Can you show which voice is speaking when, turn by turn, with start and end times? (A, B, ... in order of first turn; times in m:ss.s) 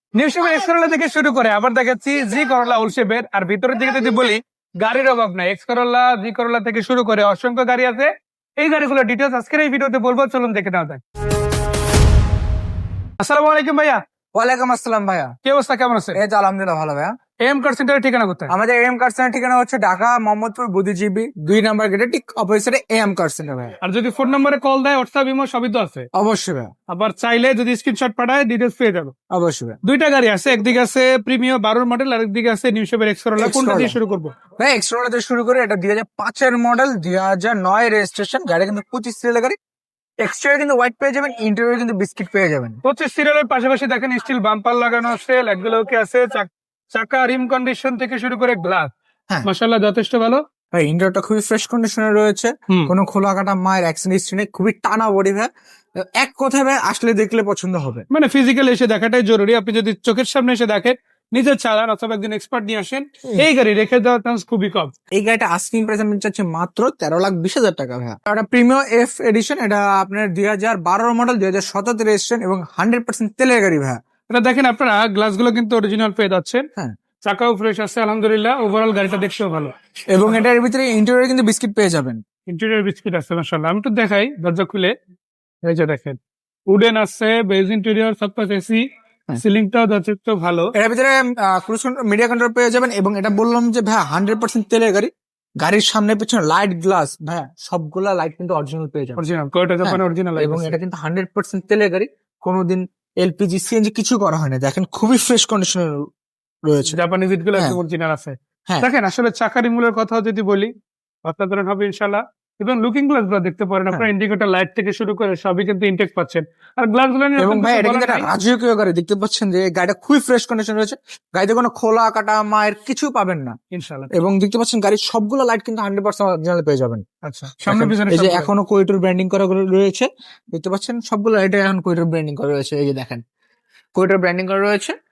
0:00.2-0:11.0 A
0:13.2-0:14.0 A
0:14.4-0:15.3 B
0:15.4-0:16.2 A
0:16.1-0:17.1 B
0:17.4-0:18.5 A
0:18.5-0:23.8 B
0:23.8-0:26.1 A
0:26.1-0:26.7 B
0:26.9-0:29.1 A
0:29.3-0:29.8 B
0:29.8-0:34.3 A
0:33.4-0:34.0 B
0:34.6-0:39.6 B
0:40.2-0:42.8 B
0:42.8-0:48.9 A
0:49.4-0:50.4 A
0:50.7-0:58.0 B
0:58.1-1:04.9 A
1:05.2-1:14.0 B
1:14.3-1:16.6 A
1:17.2-1:19.7 A
1:20.1-1:22.2 B
1:22.5-1:24.9 A
1:25.6-1:26.2 A
1:26.7-1:28.8 A
1:29.4-1:30.7 A
1:30.8-1:39.2 B
1:39.2-1:40.8 A
1:39.8-1:46.1 B
1:46.7-1:47.0 B
1:46.9-1:50.7 A
1:51.2-1:58.3 A
1:57.4-2:03.6 B
2:03.7-2:04.1 A
2:04.1-2:07.0 B
2:07.2-2:08.5 A
2:07.6-2:13.2 B
2:14.0-2:14.9 B